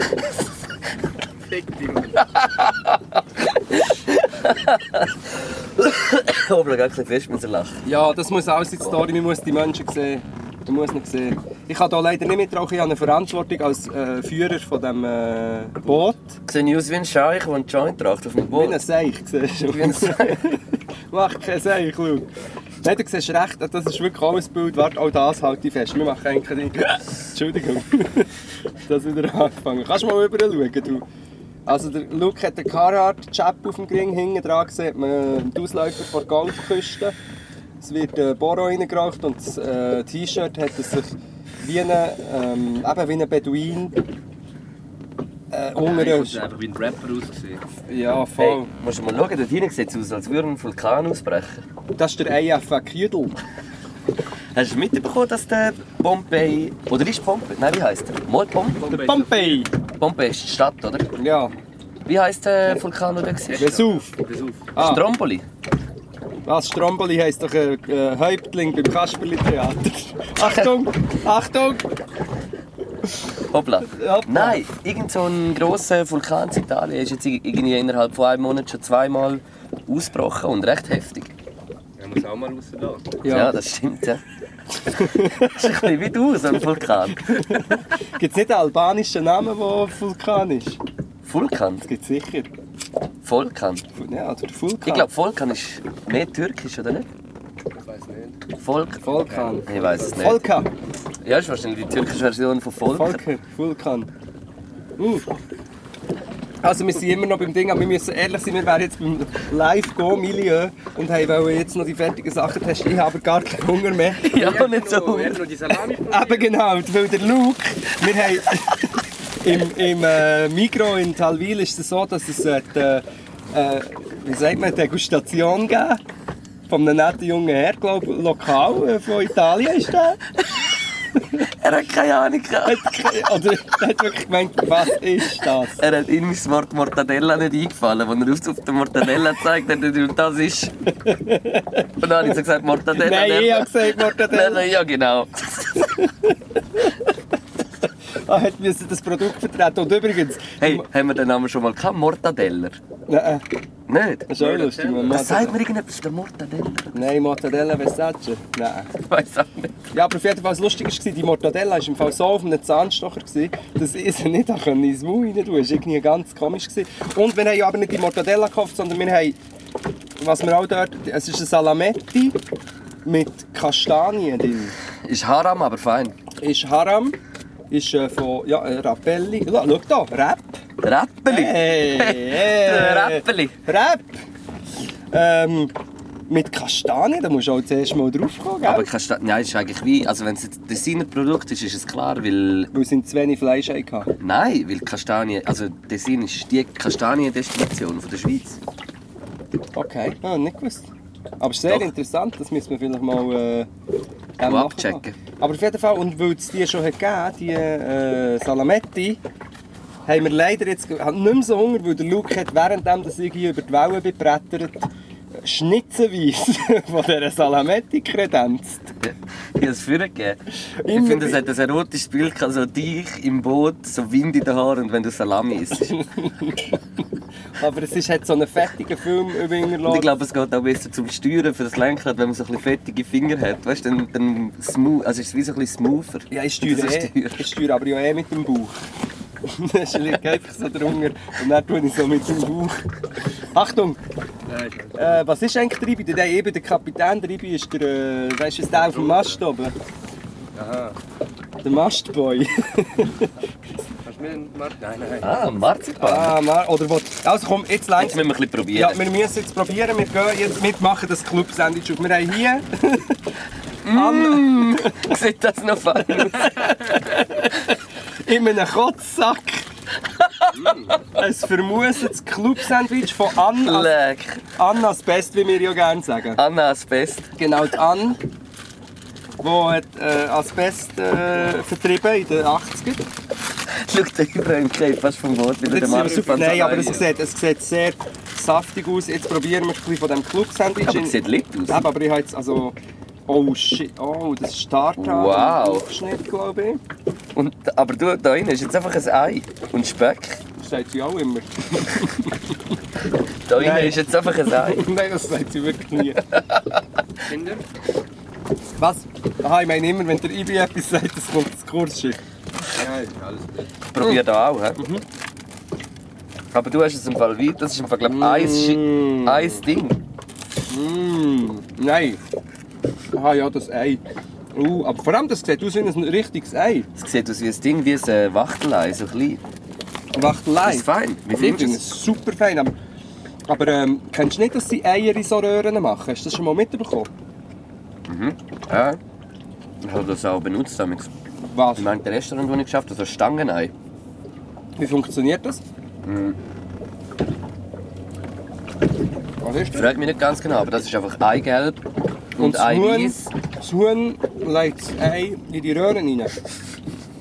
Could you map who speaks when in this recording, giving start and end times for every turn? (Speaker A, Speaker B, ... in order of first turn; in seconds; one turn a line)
Speaker A: 1.5-2.3
Speaker B: 2.4-7.8
Speaker C: 7.8-16.4
Speaker B: 16.5-18.8
Speaker C: 18.5-22.3
Speaker B: 19.7-20.5
Speaker C: 22.8-28.3
Speaker C: 28.9-31.1
Speaker C: 31.7-37.2
Speaker C: 37.8-44.0
Speaker C: 45.5-46.4
Speaker A: 45.9-47.6
Speaker C: 47.9-48.7
Speaker B: 48.4-51.6
Speaker C: 52.0-53.4
Speaker B: 54.5-58.8
Speaker A: 58.8-59.7
Speaker C: 58.9-59.7
Speaker B: 60.0-61.1
Speaker C: 61.2-61.5
Speaker B: 62.1-63.7
Speaker A: 63.5-64.7
Speaker C: 63.6-64.1
Speaker C: 64.8-65.1
Speaker B: 64.8-65.5
Speaker C: 66.5-71.9
Speaker B: 73.5-81.3
Speaker C: 73.9-74.7
Speaker A: 82.0-83.2
Speaker C: 83.2-83.5
Speaker B: 83.3-84.2
Speaker C: 84.8-85.6
Speaker B: 85.4-87.6
Speaker C: 87.3-90.8
Speaker B: 91.2-91.9
Speaker C: 91.8-92.5
Speaker B: 93.2-93.8
Speaker C: 94.0-95.1
Speaker B: 94.8-97.1
Speaker A: 97.8-98.4
Speaker B: 98.6-99.0
Speaker C: 99.0-100.7
Speaker A: 99.3-100.4
Speaker B: 99.7-100.5
Speaker B: 101.2-103.2
Speaker C: 102.9-104.1
Speaker C: 105.0-105.3
Speaker C: 106.6-114.3
Speaker B: 114.2-115.4
Speaker A: 114.3-116.5
Speaker C: 116.1-126.0
Speaker C: 126.7-130.2
Speaker B: 131.4-132.9
Speaker C: 132.6-135.8
Speaker B: 135.8-140.8
Speaker C: 141.0-142.3
Speaker B: 142.0-145.9
Speaker C: 142.9-144.7
Speaker C: 145.9-146.9
Speaker C: 148.3-150.9
Speaker B: 150.6-152.8
Speaker C: 153.1-153.4
Speaker B: 153.9-154.3
Speaker C: 154.3-155.6
Speaker A: 154.4-155.3
Speaker B: 155.1-157.2
Speaker C: 156.9-158.9
Speaker B: 159.0-159.7
Speaker C: 159.9-169.4
Speaker C: 170.2-172.4
Speaker C: 173.1-174.8
Speaker B: 175.1-176.2
Speaker C: 176.4-177.2
Speaker C: 177.7-180.6
Speaker B: 180.8-183.6
Speaker C: 181.3-184.2
Speaker C: 185.1-185.7
Speaker C: 186.3-188.9
Speaker B: 188.6-192.7
Speaker C: 192.7-194.1
Speaker B: 194.2-198.6
Speaker C: 199.8-200.9
Speaker C: 201.4-203.7
Speaker C: 204.4-209.2
Speaker B: 204.4-205.2
Speaker C: 210.1-218.9
Speaker B: 219.0-225.9
Speaker C: 220.8-221.4
Speaker C: 225.8-226.8
Speaker C: 227.6-230.1
Speaker B: 229.8-237.5
Speaker C: 236.3-238.8
Speaker C: 239.4-242.8
Speaker C: 243.5-244.0
Speaker A: 244.5-245.2
Speaker C: 245.0-249.7
Speaker A: 248.7-249.4
Speaker A: 250.6-251.0
Speaker C: 251.6-253.3
Speaker A: 254.0-255.4
Speaker B: 255.2-256.4
Speaker C: 256.0-263.2
Speaker B: 258.0-259.0
Speaker B: 263.8-267.0
Speaker C: 263.9-265.1
Speaker C: 266.0-267.7
Speaker C: 268.3-269.7
Speaker B: 270.2-270.8
Speaker A: 270.5-271.0
Speaker C: 271.1-273.9
Speaker B: 273.6-274.4
Speaker C: 274.6-276.4
Speaker B: 276.4-277.3
Speaker C: 277.4-278.2
Speaker C: 279.4-283.1
Speaker B: 283.7-287.0
Speaker C: 285.7-292.8
Speaker A: 285.7-287.1
Speaker B: 290.8-291.8
Speaker C: 293.3-296.8
Speaker B: 295.0-295.9
Speaker B: 297.4-300.4
Speaker C: 300.6-302.5
Speaker B: 303.5-304.9
Speaker C: 303.6-306.2
Speaker B: 306.2-306.8
Speaker A: 307.3-307.6
Speaker C: 308.8-312.2
Speaker A: 312.8-313.6
Speaker B: 313.9-314.9
Speaker B: 316.5-320.0
Speaker C: 318.0-319.6
Speaker C: 320.7-322.2
Speaker C: 323.1-324.0
Speaker C: 324.5-326.9
Speaker B: 327.0-329.4
Speaker C: 330.1-332.7
Speaker B: 330.6-331.8
Speaker C: 333.5-337.1
Speaker B: 338.1-339.0
Speaker B: 339.8-341.1
Speaker C: 341.4-342.0
Speaker B: 341.8-343.7
Speaker C: 344.8-345.6
Speaker B: 346.0-346.4
Speaker C: 349.4-349.9
Speaker B: 349.7-351.8
Speaker B: 352.4-353.3
Speaker C: 352.4-356.3